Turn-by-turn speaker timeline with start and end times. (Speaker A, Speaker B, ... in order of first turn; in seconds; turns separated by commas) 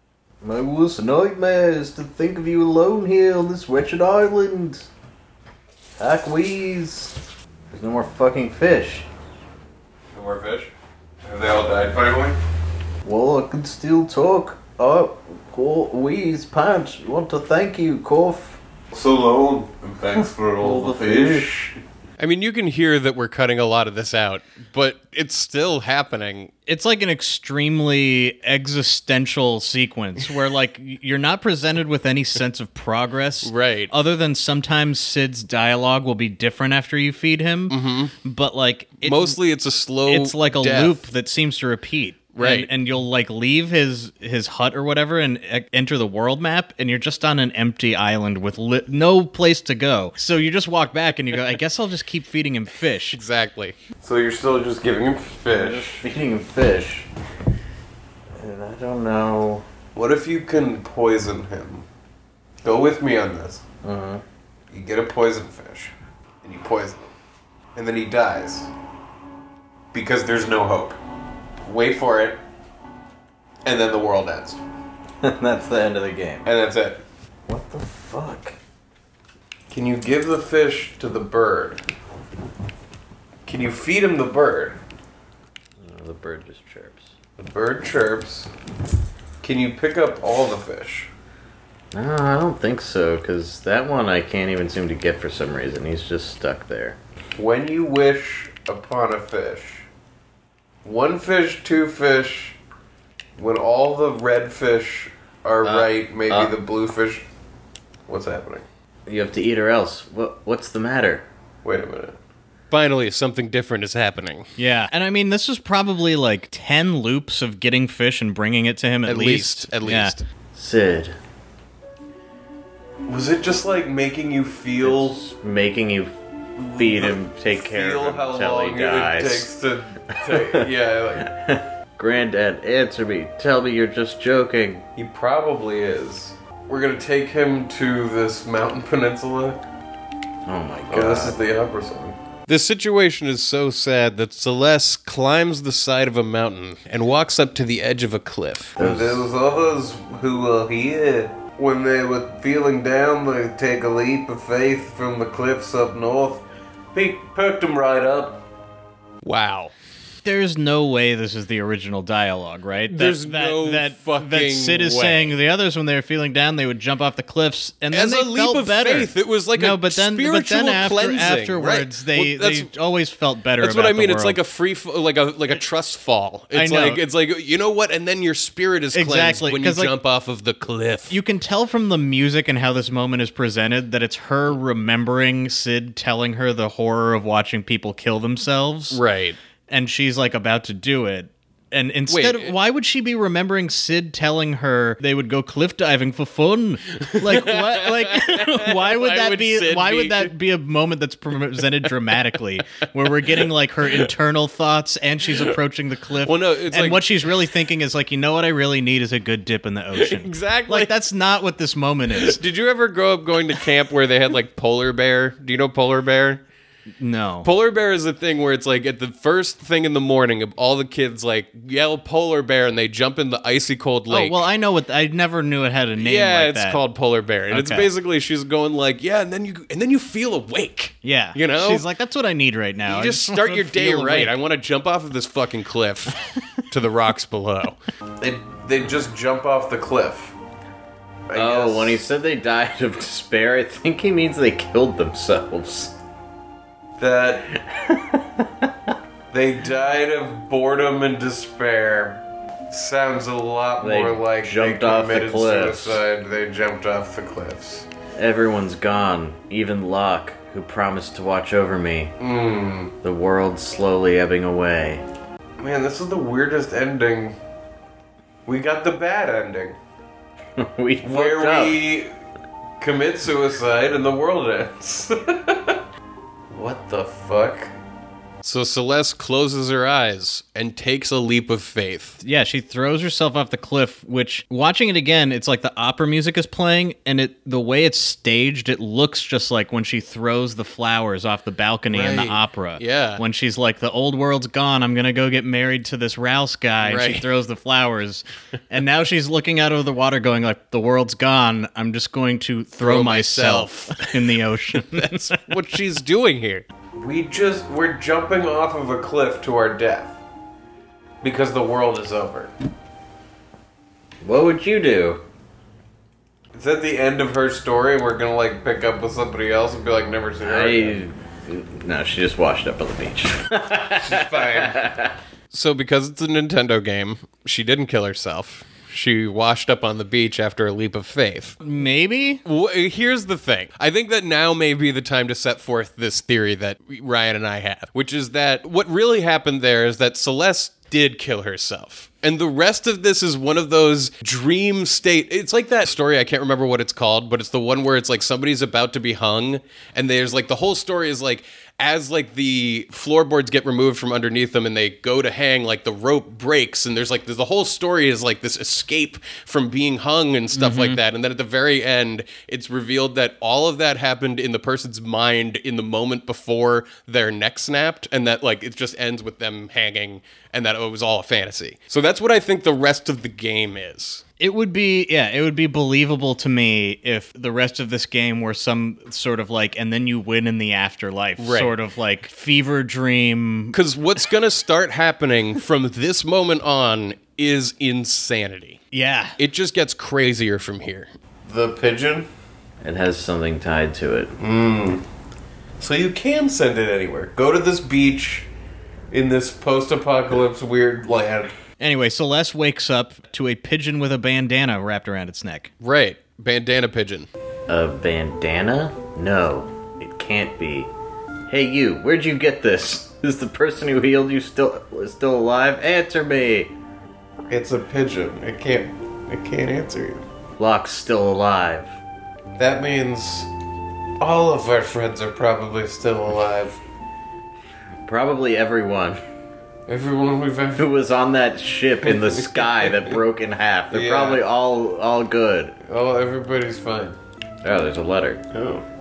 Speaker A: 0.4-4.9, Speaker A: 6.0-7.2, Speaker A: 7.7-9.1, Speaker B: 10.1-10.7, Speaker B: 11.3-12.4, Speaker A: 13.0-18.6, Speaker B: 18.9-21.7, Speaker A: 20.6-21.5, Speaker C: 22.2-26.5, Speaker D: 26.7-39.4, Speaker C: 33.4-33.9, Speaker C: 37.7-38.1, Speaker C: 39.0-41.0, Speaker D: 40.1-53.2, Speaker C: 42.3-42.7, Speaker C: 53.1-53.8, Speaker B: 54.0-56.0, Speaker A: 55.5-57.1, Speaker A: 58.4-59.6, Speaker B: 59.9-61.8, Speaker B: 62.6-63.6, Speaker A: 63.8-64.2, Speaker B: 64.7-65.9, Speaker B: 66.4-67.0, Speaker B: 67.7-68.7, Speaker B: 69.9-71.0, Speaker B: 71.6-72.4, Speaker B: 73.6-74.6, Speaker A: 75.2-76.5, Speaker B: 76.4-77.0, Speaker A: 77.5-78.6, Speaker B: 79.7-81.8, Speaker B: 83.5-84.8, Speaker A: 85.8-87.1, Speaker B: 87.4-88.5, Speaker B: 89.4-91.1, Speaker A: 91.9-97.0, Speaker B: 97.3-99.9, Speaker B: 100.8-102.5, Speaker B: 103.4-107.3, Speaker A: 105.6-106.5, Speaker B: 108.1-108.7, Speaker A: 109.1-111.2, Speaker B: 111.6-112.2, Speaker C: 112.7-114.5, Speaker D: 114.6-120.2, Speaker C: 119.0-120.2, Speaker A: 120.5-121.2, Speaker B: 123.1-125.2, Speaker A: 124.8-126.2, Speaker B: 126.6-131.3, Speaker A: 126.7-129.5, Speaker A: 130.1-134.8, Speaker B: 134.9-139.6, Speaker A: 140.4-141.4, Speaker B: 140.9-142.2, Speaker C: 142.5-148.8, Speaker A: 148.8-149.2, Speaker B: 148.8-158.4, Speaker C: 159.2-159.7, Speaker D: 160.2-174.4, Speaker C: 162.9-165.3, Speaker C: 167.9-172.7, Speaker C: 173.6-181.2, Speaker D: 176.5-177.0, Speaker D: 178.9-179.9, Speaker D: 181.1-189.0, Speaker C: 188.9-189.4, Speaker D: 189.7-212.4, Speaker C: 192.1-192.5, Speaker C: 197.0-200.3, Speaker C: 206.2-207.1, Speaker C: 209.9-210.9, Speaker C: 212.2-216.4, Speaker D: 217.0-217.5, Speaker C: 217.4-224.4, Speaker D: 224.1-226.8, Speaker C: 226.0-231.8, Speaker D: 227.5-227.9, Speaker D: 231.0-234.3, Speaker C: 232.8-237.8, Speaker B: 238.2-240.3, Speaker B: 241.3-242.0, Speaker A: 241.3-245.9, Speaker B: 247.0-247.6, Speaker A: 247.6-248.7, Speaker B: 249.3-257.9, Speaker A: 253.8-256.0, Speaker A: 258.1-262.1, Speaker B: 262.2-262.9, Speaker A: 263.0-265.0, Speaker B: 265.6-267.4, Speaker B: 268.4-269.8, Speaker A: 270.6-271.9, Speaker B: 271.0-272.1, Speaker B: 272.8-275.8, Speaker B: 276.5-277.7, Speaker C: 278.4-282.2, Speaker D: 282.2-305.5, Speaker C: 291.9-293.2, Speaker C: 296.8-297.3, Speaker C: 302.8-306.6, Speaker B: 306.9-310.2, Speaker B: 311.2-312.5, Speaker A: 314.2-315.2, Speaker B: 316.5-321.0, Speaker A: 320.4-325.1, Speaker B: 324.0-324.9, Speaker C: 325.5-331.6, Speaker D: 331.6-332.4, Speaker C: 332.4-374.2, Speaker D: 360.5-361.0, Speaker D: 374.4-383.8, Speaker C: 381.4-381.7, Speaker C: 383.7-388.8, Speaker D: 388.9-389.4, Speaker C: 389.4-391.1, Speaker B: 391.4-392.3, Speaker A: 392.8-394.3, Speaker B: 394.4-395.0, Speaker B: 395.8-398.5, Speaker B: 399.1-401.5, Speaker D: 401.8-405.7, Speaker C: 405.8-407.3, Speaker A: 407.7-410.9, Speaker A: 411.5-416.7, Speaker B: 417.5-420.2, Speaker A: 420.6-421.9, Speaker B: 422.6-423.5, Speaker B: 424.2-426.8, Speaker A: 428.0-429.2, Speaker B: 429.9-430.9, Speaker A: 430.8-435.8, Speaker B: 432.0-433.2, Speaker B: 433.9-434.4, Speaker B: 435.8-437.2, Speaker A: 437.6-438.4, Speaker B: 438.5-438.8